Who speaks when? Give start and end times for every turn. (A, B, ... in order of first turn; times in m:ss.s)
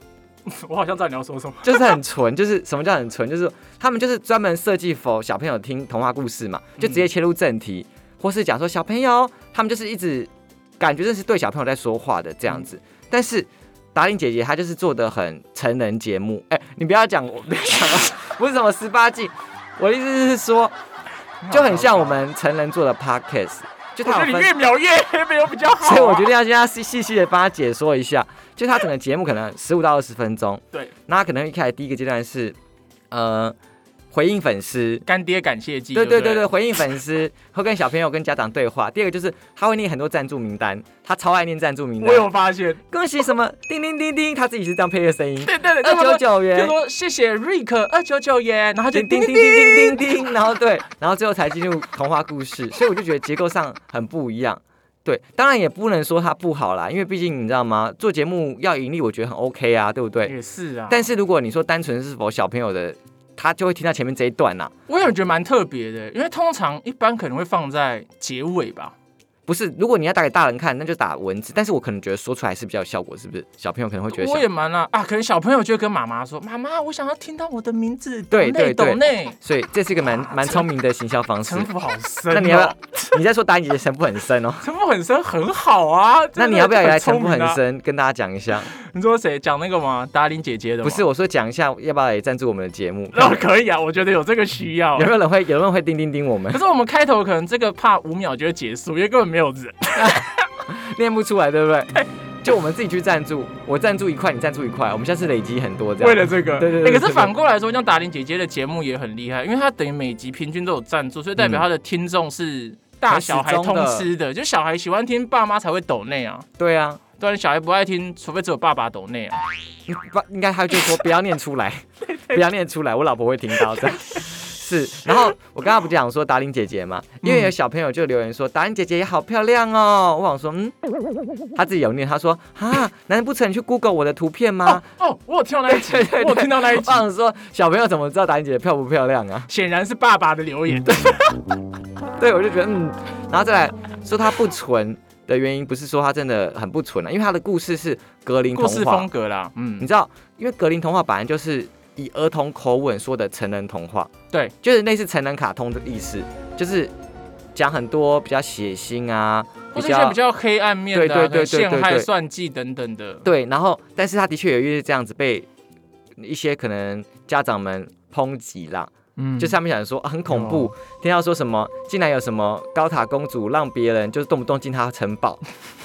0:00.4-0:01.9 A
0:01.6-0:20.7 B
0:06.8-0:07.0 A
0:21.4-0:22.2 A
0:21.5-0:24.5 B
0:24.0-0:26.3 A
0:25.8-0:32.6 B
0:33.1-0:33.5 B
0:34.1-0:35.0 B
0:35.0-0:36.5 A
0:35.9-0:42.3 B
0:42.0-0:42.8 A
0:42.9-0:46.8 B
0:45.4-0:50.2 A
0:48.9-1:00.3 B
1:00.2-1:01.0 A
1:00.9-1:04.7 B
1:04.9-1:08.9 A
1:09.5-1:14.4 B
1:14.1-1:19.4 A
1:18.3-1:21.7 B
1:20.0-1:20.6 A
1:21.4-1:23.2 A
1:22.3-1:24.6 B
1:24.6-1:27.6 A
1:26.4-1:28.7 B
1:28.7-1:31.0 A
1:30.8-1:33.4 B
1:33.1-1:35.1 A
1:35.0-1:36.6 B
1:36.5-1:40.4 A
1:40.0-1:47.3 B
1:46.0-1:56.4 A
1:51.4-1:51.6 B
1:53.1-1:54.1 B
1:56.6-1:57.0 B
1:57.2-1:59.4 A
1:59.9-2:10.7 B
2:03.7-2:04.0 A
2:07.2-2:07.5 A
2:11.5-2:14.8 B
2:14.6-2:17.0 A
2:15.7-2:19.5 B
2:19.5-2:21.2 A
2:20.8-2:21.3 B
2:22.2-2:29.1 B
2:28.5-2:29.9 A
2:29.8-2:34.1 B
2:34.6-2:36.9 B
2:37.5-2:40.2 B
2:39.7-2:43.2 A
2:40.9-2:42.1 B
2:43.2-2:45.5 B
2:46.2-2:55.4 B
2:49.2-2:49.5 A
2:50.3-2:50.7 A